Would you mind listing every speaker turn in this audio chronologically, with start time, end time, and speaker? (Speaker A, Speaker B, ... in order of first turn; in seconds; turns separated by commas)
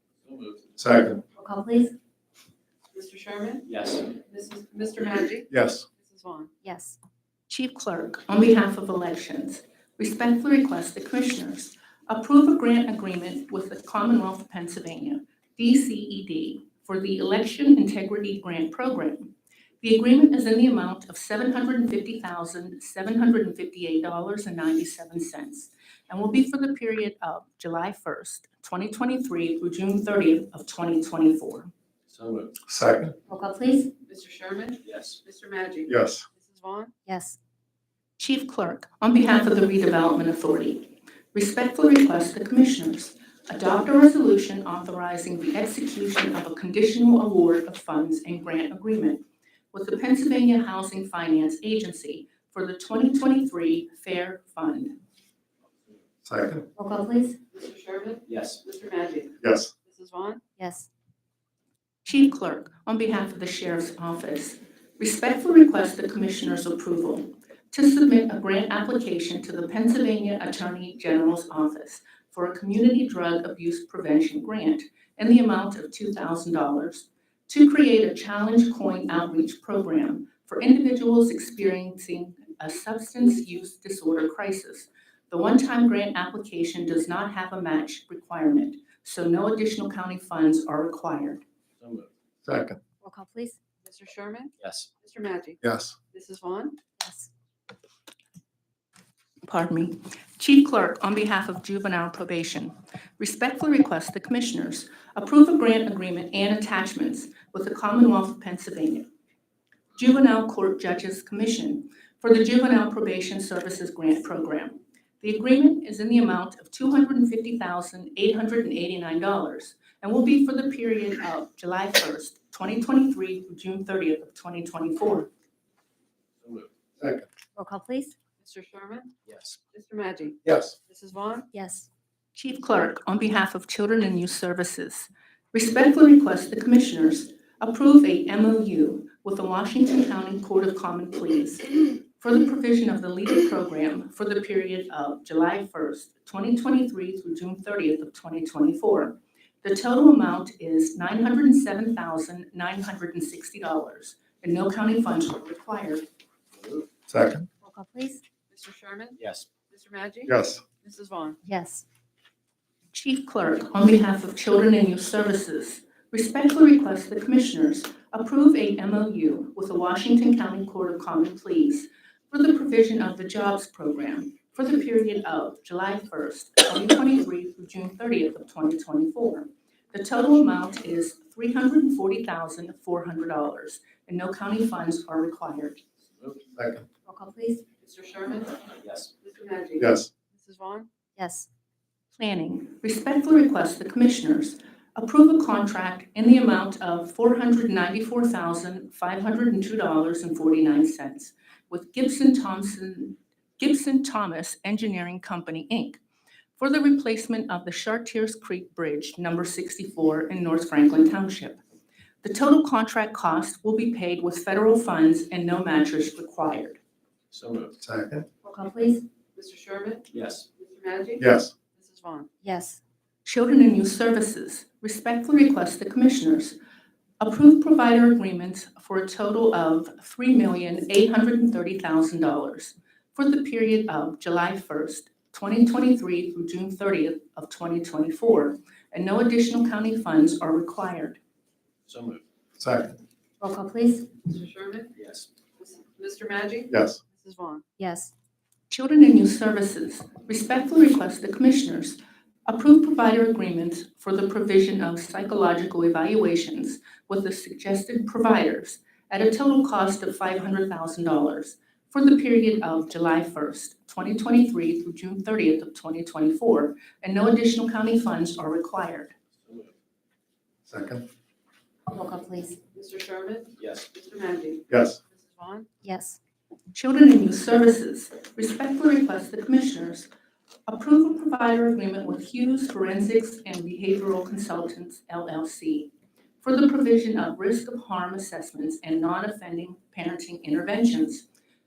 Speaker A: 0.2-0.7, Speaker B: 0.8-1.2, Speaker C: 1.4-1.9, Speaker D: 2.9-6.5, Speaker A: 3.7-4.1, Speaker B: 5.5-5.9, Speaker C: 6.6-7.0, Speaker E: 7.5-31.7, Speaker A: 32.1-32.6, Speaker B: 32.6-33.1, Speaker C: 33.3-33.9, Speaker D: 34.1-36.9, Speaker A: 34.9-35.2, Speaker B: 35.9-36.3, Speaker C: 37.1-37.4, Speaker E: 38.2-55.0, Speaker B: 56.2-56.7, Speaker C: 56.8-57.4, Speaker D: 57.5-60.4, Speaker A: 58.3-58.6, Speaker B: 59.4-59.7, Speaker C: 60.6-60.9, Speaker E: 62.0-91.4, Speaker A: 91.8-92.1, Speaker B: 92.4-92.8, Speaker C: 93.0-93.6, Speaker D: 93.8-95.6, Speaker A: 94.6-94.9, Speaker B: 95.6-96.0, Speaker D: 96.1-96.8, Speaker C: 97.0-97.3, Speaker E: 99.4-109.1, Speaker E: 110.0-125.3, Speaker A: 126.4-126.7, Speaker B: 127.0-127.3, Speaker C: 127.6-128.1, Speaker D: 128.4-129.2, Speaker A: 129.3-129.6, Speaker D: 129.7-131.5, Speaker B: 130.4-130.8, Speaker C: 131.5-131.9, Speaker E: 132.3-156.1, Speaker A: 156.6-156.9, Speaker B: 157.1-157.5, Speaker C: 157.6-158.2, Speaker D: 158.5-161.4, Speaker A: 159.2-159.5, Speaker B: 160.3-160.6, Speaker C: 161.4-161.8, Speaker E: 162.9-185.8, Speaker B: 186.6-186.9, Speaker C: 187.1-187.6, Speaker D: 187.8-188.7, Speaker A: 188.8-189.1, Speaker D: 189.2-190.9, Speaker B: 189.8-190.1, Speaker C: 191.2-191.5, Speaker E: 192.1-206.0, Speaker E: 206.6-211.6, Speaker E: 212.2-216.8, Speaker A: 217.3-217.8, Speaker B: 217.8-218.3, Speaker C: 218.4-219.1, Speaker D: 219.3-222.3, Speaker A: 220.1-220.5, Speaker B: 221.2-221.5, Speaker C: 222.4-222.8, Speaker E: 223.2-226.6, Speaker E: 227.2-241.2, Speaker A: 241.9-242.2, Speaker B: 242.6-243.0, Speaker C: 243.4-244.2, Speaker D: 244.3-244.9, Speaker A: 245.0-245.3, Speaker D: 245.6-247.6, Speaker B: 246.7-247.0, Speaker C: 247.8-248.1, Speaker E: 248.7-269.1, Speaker A: 269.4-269.7, Speaker B: 270.7-271.1, Speaker C: 271.9-272.6, Speaker D: 272.7-275.7, Speaker A: 273.6-273.9, Speaker B: 274.7-275.0, Speaker C: 275.8-276.2, Speaker E: 276.7-280.1, Speaker E: 280.7-291.2